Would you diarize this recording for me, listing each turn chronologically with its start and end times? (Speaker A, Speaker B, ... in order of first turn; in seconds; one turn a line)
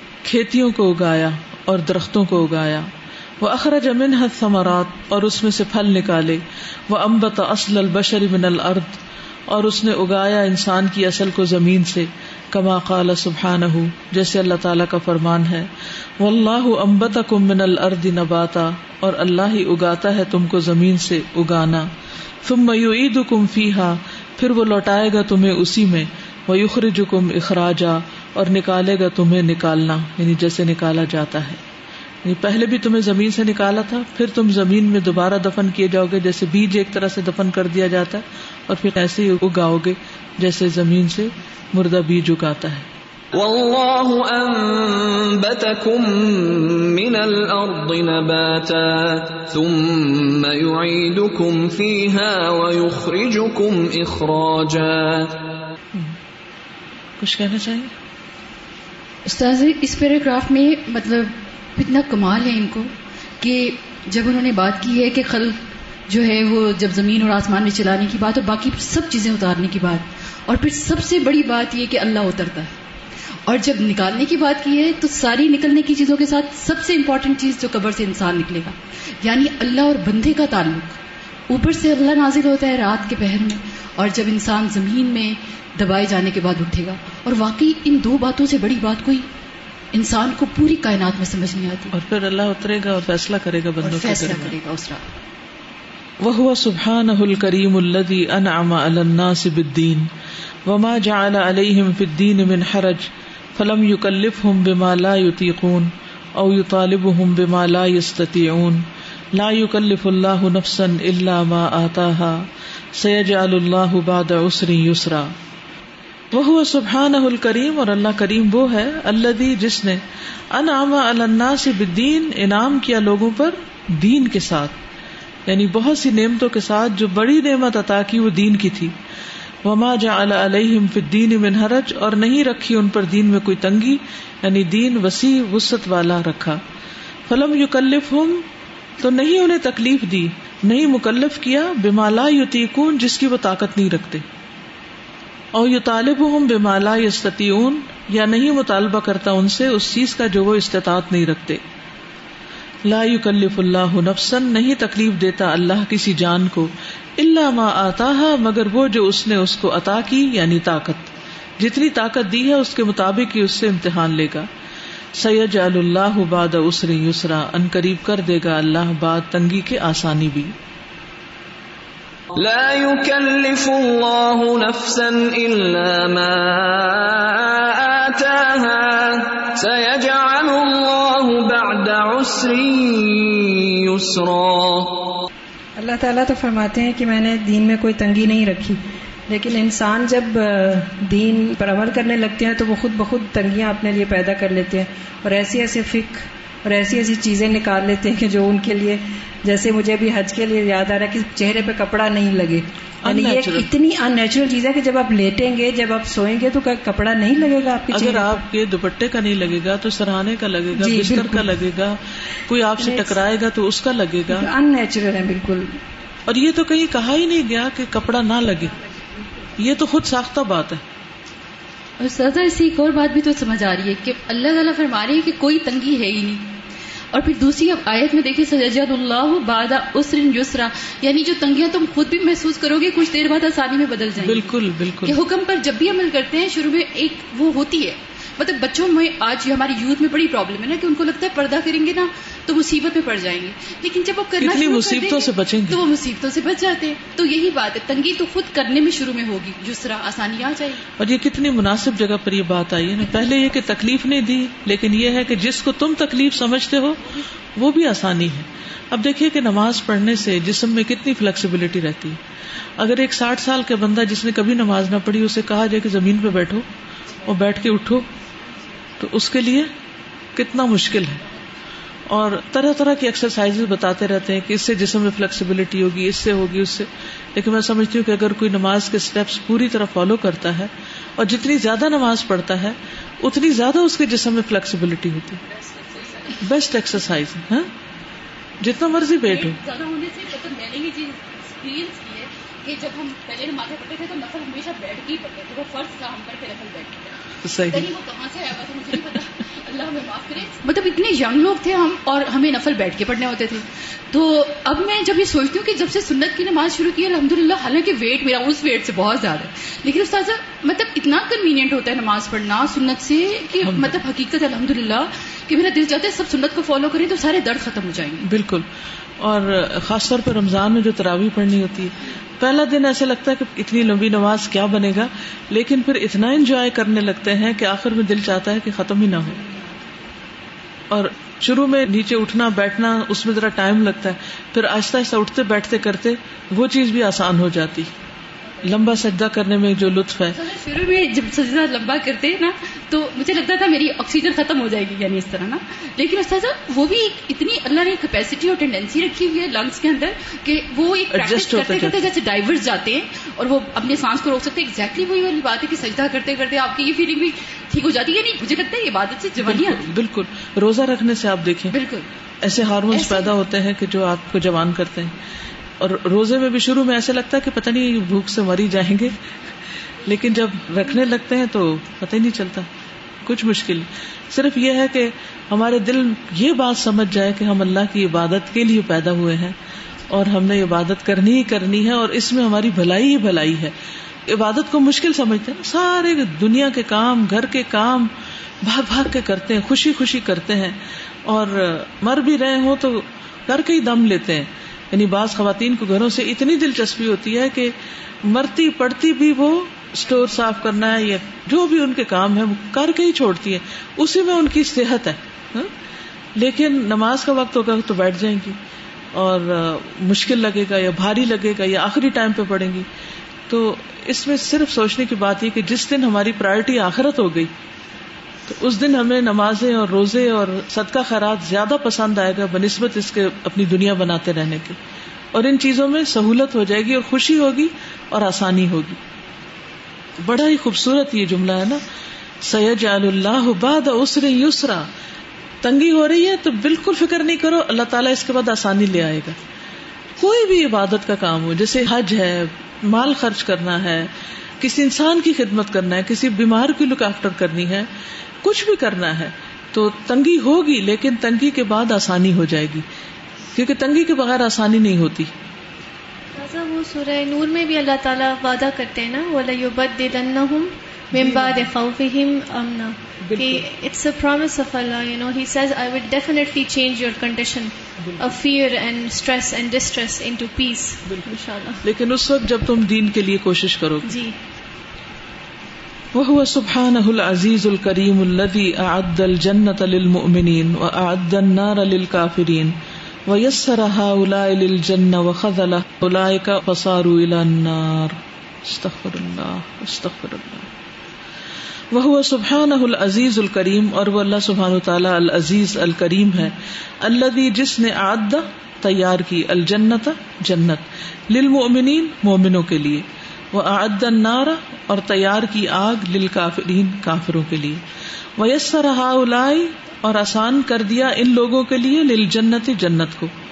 Speaker A: 0.2-2.9
Speaker A: 3.4-21.9
Speaker A: 22.4-31.6
Speaker A: 32.2-42.9
Speaker B: 43.3-55.4
Speaker A: 57.2-57.9
Speaker C: 59.3-72.7
Speaker C: 73.5-89.3
Speaker C: 89.9-91.9
Speaker A: 91.9-94.5
Speaker C: 93.8-95.1
Speaker A: 96.2-100.1
Speaker A: 100.7-115.3
Speaker A: 116.3-124.8
Speaker A: 125.5-128.9
Speaker A: 129.6-136.6
Speaker A: 137.3-138.5
Speaker A: 139.0-144.2
Speaker A: 145.5-151.6
Speaker A: 152.8-164.5
Speaker A: 165.2-170.5
Speaker B: 172.3-185.1
Speaker D: 185.8-208.4
Speaker A: 203.0-203.7
Speaker A: 207.9-214.5
Speaker D: 210.8-211.5
Speaker D: 212.8-213.2
Speaker D: 214.3-215.8
Speaker A: 216.3-218.7
Speaker A: 219.6-220.8
Speaker C: 222.0-226.5
Speaker C: 227.1-250.8
Speaker A: 234.2-235.2
Speaker A: 244.4-245.8
Speaker A: 251.0-262.2
Speaker A: 262.8-266.7
Speaker A: 267.2-268.1
Speaker A: 269.0-269.7
Speaker A: 270.4-271.2
Speaker A: 272.1-285.4
Speaker C: 285.9-286.3
Speaker A: 286.3-287.7
Speaker A: 288.6-289.6
Speaker C: 289.3-318.3
Speaker A: 297.4-297.9
Speaker A: 313.6-313.9
Speaker A: 318.2-318.7
Speaker A: 319.2-329.4
Speaker A: 330.9-337.9
Speaker A: 338.6-340.4
Speaker C: 340.4-359.9
Speaker A: 351.1-352.0
Speaker A: 359.4-361.8
Speaker C: 361.7-362.1
Speaker A: 362.4-365.1
Speaker C: 362.9-363.3
Speaker A: 365.8-369.1
Speaker A: 370.1-372.7
Speaker A: 373.2-379.6
Speaker A: 380.1-383.7
Speaker A: 384.3-388.1
Speaker A: 388.6-405.7
Speaker A: 406.4-408.6
Speaker A: 409.1-412.9
Speaker A: 413.5-417.5
Speaker A: 418.5-424.8
Speaker A: 425.3-429.0
Speaker A: 430.2-431.8
Speaker A: 432.4-434.9
Speaker A: 435.6-439.4
Speaker A: 440.2-447.9
Speaker A: 448.4-452.9
Speaker A: 453.6-455.3
Speaker E: 456.4-471.8
Speaker A: 461.1-461.7
Speaker A: 463.2-463.6
Speaker A: 468.0-468.3
Speaker A: 471.8-474.1
Speaker E: 474.0-474.4
Speaker A: 476.1-490.7
Speaker A: 491.9-507.8
Speaker A: 508.4-513.3